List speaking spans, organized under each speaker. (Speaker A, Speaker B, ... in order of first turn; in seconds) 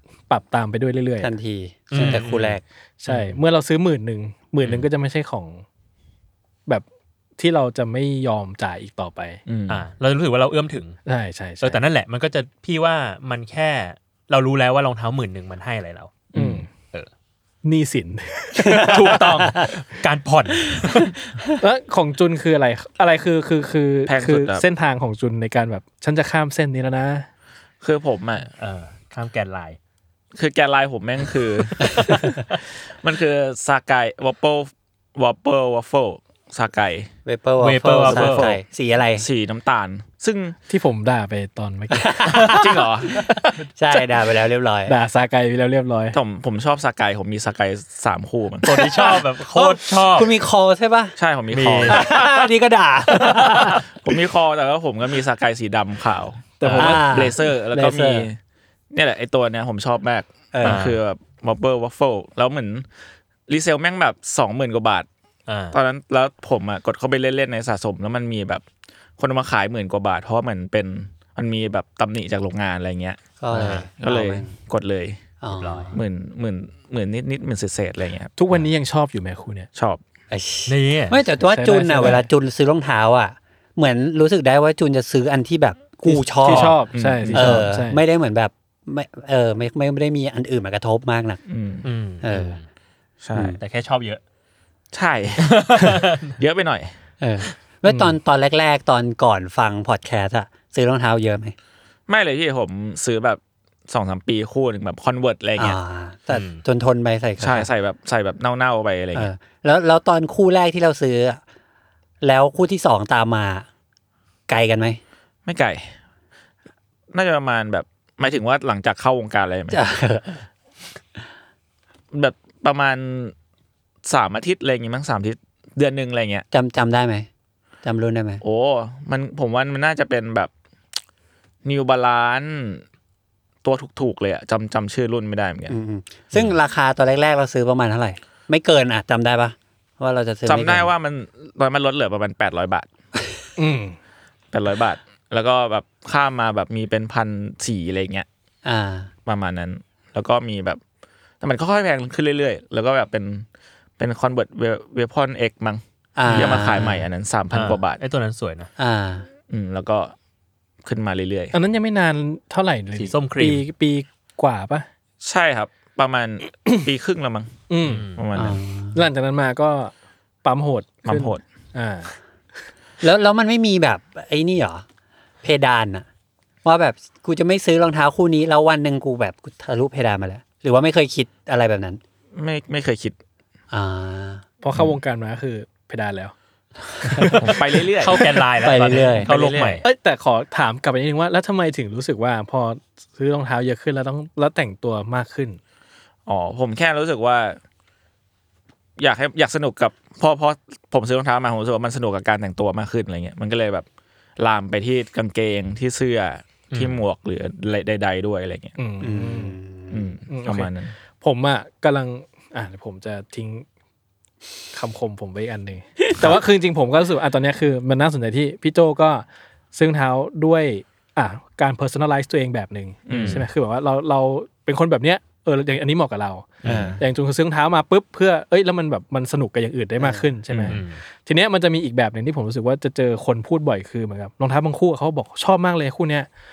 Speaker A: 0.3-1.3, 3.0-5.6, 7.4-9.4, 11.1-11.8, 16.3-16.7, 17.6-19.6, 21.6-27.3, 40.7-42.5, 43.2-43.6, 44.9-46.2, 56.6-57.3, 78.4-79.7, 81.4-82.3, 86.0-88.0, 97.9-98.1, 143.6-144.0, 161.5-164.8, 167.7-168.0, 168.9-169.9, 170.4-172.1, 184.6-186.3, 187.0-187.5, 189.8-195.6, 208.8-209.6, 210.3-213.6, 214.7-236.3
Speaker B: 1.2-2.6, 18.6-19.7, 20.9-21.5, 31.8-32.1, 37.2-39.2, 41.9-44.9, 48.7-51.1, 51.9-53.8, 56.7-58.3, 60.5-60.8, 73.4-74.5, 75.4-76.0, 80.3-86.8, 87.3-91.4, 92.2-92.6, 93.3-93.6, 97.2-101.5, 105.6-107.7, 109.1-111.4, 112.2-113.7, 114.5-115.0, 119.7-120.4, 126.5-127.3, 127.8-128.4, 135.7-140.9, 148.6-149.1, 156.2-157.1, 158.8-159.3, 168.3-169.0, 173.0-174.8, 175.4-176.1, 176.6-182.0, 183.7-184.4, 187.0-187.3, 188.6-189.3, 209.0-210.2, 226.6-227.0, 230.0-230.3
Speaker C: 1.9-3.4, 9.7-11.0, 11.6-16.2, 18.8-21.1, 28.6-29.8, 37.6-38.5, 48.6-50.3, 51.5-52.0, 53.1-53.8, 56.6-57.0, 60.6-61.0, 65.5-65.8, 73.5-73.9, 75.5-76.0, 80.7-81.2, 86.4-86.8, 91.8-92.6, 93.6-94.2, 95.4-96.3, 106.3-106.6, 157.5-158.7, 163.0-163.6, 167.8-168.2, 187.2-189.8, 206.7-207.0, 223.1-223.4, 226.6-227.0, 230.7-231.0
Speaker D: 9.5-9.8, 16.3-16.6, 24.1-24.6, 27.8-28.5, 30.3-37.1, 38.0-38.6, 39.2-40.5, 42.5-43.2, 46.1-48.8, 51.2-52.0, 54.0-58.4, 58.9-62.9, 63.5-65.1, 65.7-68.6, 69.2-75.2, 75.9-78.3, 79.8-80.0, 86.9-87.6, 91.5-91.8, 93.2-93.6, 94.9-96.9, 102.1-105.8, 107.4-109.3, 115.5-115.9, 117.1-119.8, 122.1-123.3, 124.0-126.5, 128.4-130.5, 131.6-132.8, 133.6-135.8, 140.4-142.9, 144.5-148.2, 149.2-150.8, 151.4-153.4, 154.0-158.0, 159.5-160.1, 160.8-161.5, 165.2-167.5, 168.1-168.6, 171.1-171.4, 182.3-183.2, 187.4-188.2, 189.2-189.8, 196.2-197.6, 199.0-203.8, 204.4-208.7, 209.9-210.9, 223.1-223.4, 230.5-230.8